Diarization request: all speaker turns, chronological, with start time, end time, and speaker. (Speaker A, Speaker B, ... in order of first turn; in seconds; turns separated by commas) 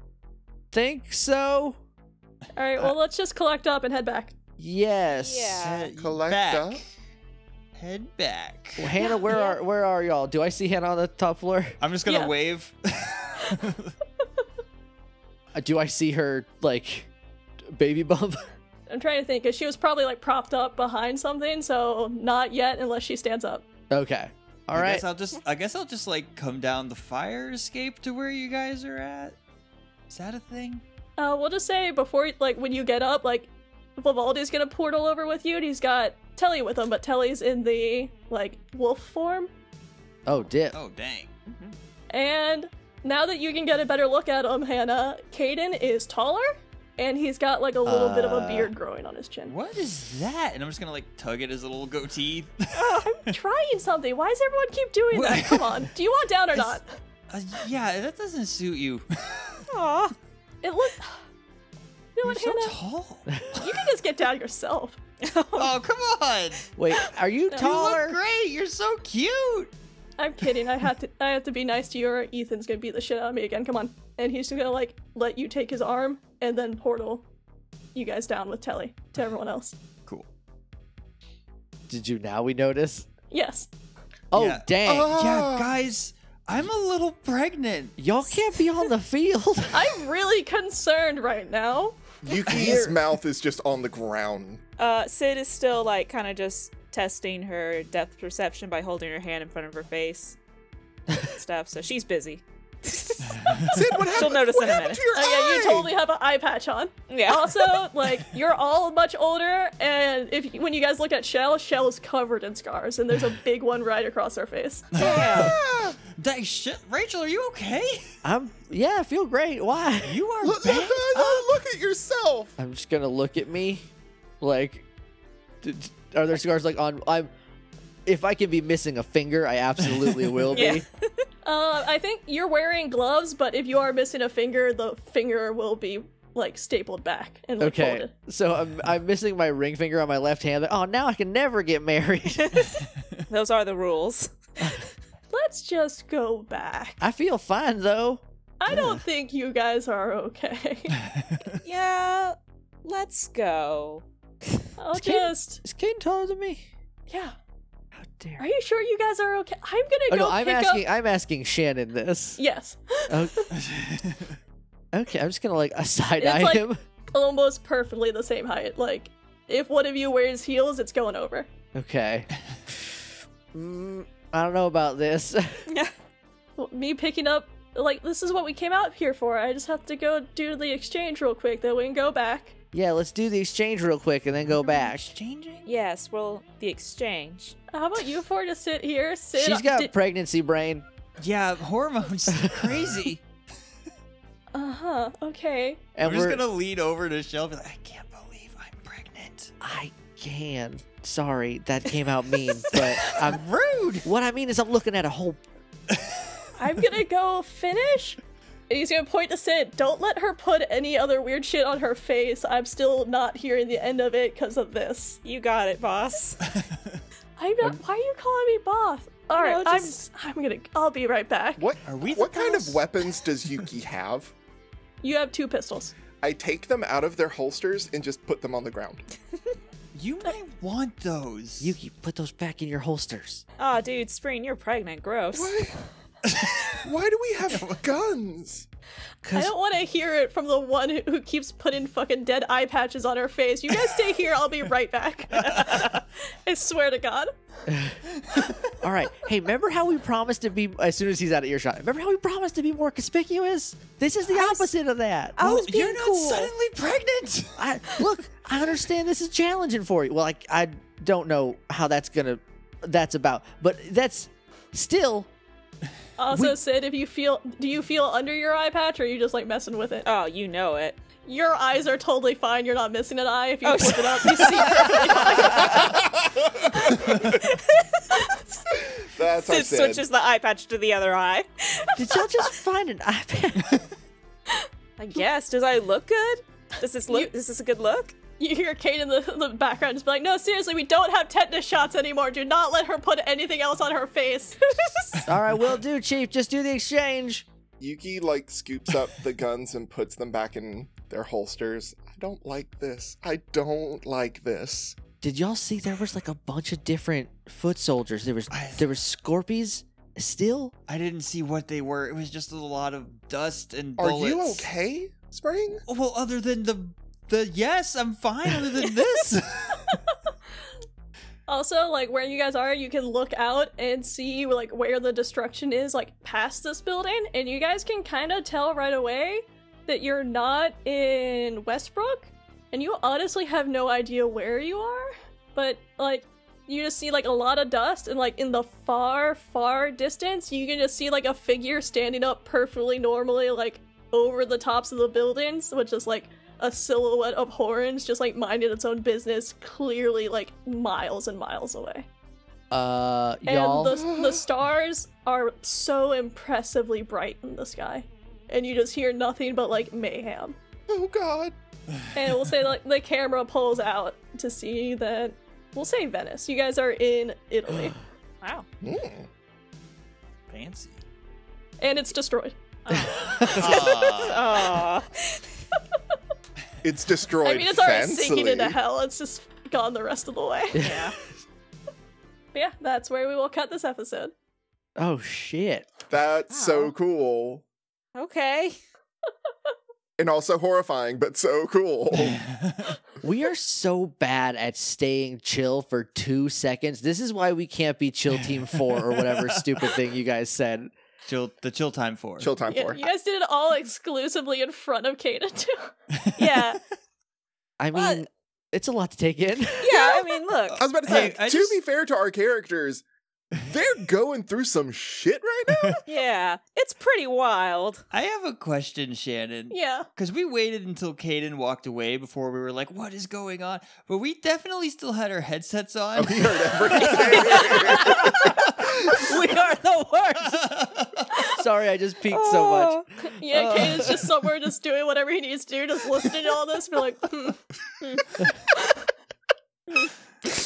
Speaker A: 0.7-1.8, Speaker B: 2.5-4.3, Speaker A: 4.6-5.6, Speaker C: 5.1-5.9, Speaker D: 5.6-6.9, Speaker E: 6.0-6.8, Speaker D: 7.8-8.9, Speaker A: 8.8-11.8, Speaker C: 9.0-9.5, Speaker D: 11.8-13.9, Speaker B: 12.1-12.3, Speaker A: 15.5-17.1, Speaker A: 17.6-18.4, Speaker B: 18.9-23.6, Speaker A: 23.9-25.0, Speaker D: 24.7-29.4, Speaker D: 30.1-30.8, Speaker B: 31.2-39.5, Speaker A: 40.2-40.8, Speaker D: 40.7-41.3, Speaker C: 41.5-41.7, Speaker B: 42.1-49.5, Speaker A: 47.8-48.7, Speaker D: 49.5-53.3, Speaker B: 52.8-56.8, Speaker D: 55.1-55.9, Speaker D: 57.3-59.6, Speaker C: 59.7-60.1, Speaker B: 60.6-61.2, Speaker B: 62.1-62.8, Speaker D: 62.2-63.9, Speaker B: 63.6-65.0, Speaker C: 65.2-65.7, Speaker D: 65.5-66.7, Speaker A: 66.8-68.2, Speaker D: 67.6-69.7, Speaker B: 70.2-77.2, Speaker B: 77.9-79.8, Speaker A: 81.9-83.1, Speaker B: 83.3-83.7, Speaker A: 84.3-85.1, Speaker D: 84.3-88.0, Speaker E: 84.8-85.7, Speaker A: 88.0-90.0, Speaker B: 89.7-92.2, Speaker E: 92.2-94.6, Speaker A: 92.5-93.0, Speaker C: 94.8-100.4, Speaker C: 101.2-105.0, Speaker D: 103.4-103.7, Speaker E: 103.7-106.0, Speaker B: 105.1-114.9, Speaker C: 107.1-107.9, Speaker D: 114.9-118.1, Speaker C: 115.0-115.5, Speaker E: 115.0-116.0, Speaker A: 118.2-120.2, Speaker D: 120.0-121.6, Speaker E: 120.4-122.5, Speaker A: 122.6-123.8, Speaker A: 124.4-124.8, Speaker A: 125.6-127.3, Speaker A: 128.1-130.8, Speaker C: 130.5-131.0, Speaker B: 131.4-138.1, Speaker A: 137.6-142.6, Speaker C: 142.3-144.8, Speaker B: 145.3-147.0, Speaker A: 147.0-149.0, Speaker B: 148.6-151.0, Speaker D: 151.0-151.5, Speaker C: 151.6-154.0, Speaker B: 154.8-155.6, Speaker A: 154.9-156.7, Speaker B: 157.1-157.3, Speaker A: 157.9-158.4, Speaker B: 158.4-160.8, Speaker A: 160.1-162.4, Speaker B: 162.4-163.6, Speaker A: 163.1-163.5, Speaker D: 163.6-164.4, Speaker A: 164.9-166.8, Speaker B: 166.2-171.5, Speaker A: 171.7-175.6, Speaker B: 176.6-182.5, Speaker A: 182.7-185.1, Speaker D: 184.8-185.7, Speaker C: 185.7-187.6, Speaker B: 187.7-189.9, Speaker A: 189.3-190.8, Speaker D: 191.2-193.2, Speaker A: 192.4-192.8, Speaker B: 194.5-195.8, Speaker A: 195.9-196.4, Speaker D: 196.0-199.5, Speaker A: 199.6-203.4, Speaker D: 202.7-204.1, Speaker A: 204.0-205.4, Speaker B: 206.6-215.2, Speaker C: 215.2-216.4, Speaker D: 216.5-217.0, Speaker B: 217.4-221.6, Speaker C: 219.3-220.0, Speaker E: 221.6-224.3, Speaker D: 221.8-222.9, Speaker B: 225.0-225.9, Speaker E: 226.2-229.0, Speaker D: 229.9-231.7, Speaker A: 231.6-233.4, Speaker C: 233.6-235.5, Speaker E: 235.3-235.8, Speaker D: 236.2-236.9, Speaker E: 236.8-238.7, Speaker D: 237.5-237.8, Speaker A: 239.2-239.5, Speaker B: 239.3-247.3, Speaker D: 245.3-245.9, Speaker A: 247.7-248.0, Speaker D: 248.2-248.5, Speaker A: 248.8-255.3, Speaker C: 255.4-256.5, Speaker D: 255.4-257.6, Speaker A: 257.6-265.3, Speaker B: 266.2-270.1, Speaker A: 266.3-266.6, Speaker C: 270.0-271.0, Speaker B: 271.2-275.9, Speaker C: 273.6-275.6, Speaker E: 275.5-277.5, Speaker C: 277.7-278.3, Speaker E: 278.9-280.0, Speaker C: 279.4-282.2, Speaker A: 281.9-283.8, Speaker C: 285.0-288.2, Speaker B: 288.4-295.3, Speaker A: 295.2-297.4, Speaker E: 297.8-305.0, Speaker A: 305.2-310.7, Speaker D: 308.5-308.9, Speaker D: 310.9-314.7, Speaker E: 314.0-315.8, Speaker D: 315.9-320.0, Speaker C: 318.8-319.1, Speaker B: 321.5-352.1, Speaker A: 352.7-354.0, Speaker B: 353.4-360.6, Speaker E: 353.9-354.4, Speaker E: 360.9-361.5, Speaker B: 362.1-367.9, Speaker E: 368.8-369.3, Speaker D: 370.5-371.0, Speaker B: 371.8-372.6, Speaker C: 372.8-375.4, Speaker A: 372.9-373.8, Speaker D: 373.4-374.5, Speaker E: 376.8-378.8, Speaker B: 377.4-381.0, Speaker C: 380.8-381.1, Speaker B: 382.5-384.3, Speaker A: 385.0-385.9, Speaker E: 386.1-387.6, Speaker C: 386.5-386.9, Speaker C: 388.1-388.8, Speaker E: 390.2-392.4, Speaker D: 392.2-393.0, Speaker A: 393.2-400.9, Speaker D: 398.6-399.9, Speaker D: 401.2-402.5, Speaker E: 402.4-403.0, Speaker B: 402.7-405.9, Speaker D: 406.1-406.4, Speaker C: 406.4-406.8, Speaker A: 407.8-410.1, Speaker C: 407.9-408.2, Speaker C: 409.8-410.8, Speaker D: 410.7-411.8, Speaker E: 410.8-416.0, Speaker D: 415.7-416.0, Speaker C: 416.1-418.0, Speaker D: 418.1-429.2, Speaker B: 419.7-420.1, Speaker E: 426.1-428.3, Speaker C: 427.4-428.5, Speaker A: 429.2-430.6, Speaker C: 429.2-430.4, Speaker D: 430.4-431.3, Speaker A: 431.6-434.4, Speaker C: 432.3-433.1, Speaker B: 433.4-437.6, Speaker C: 438.0-438.3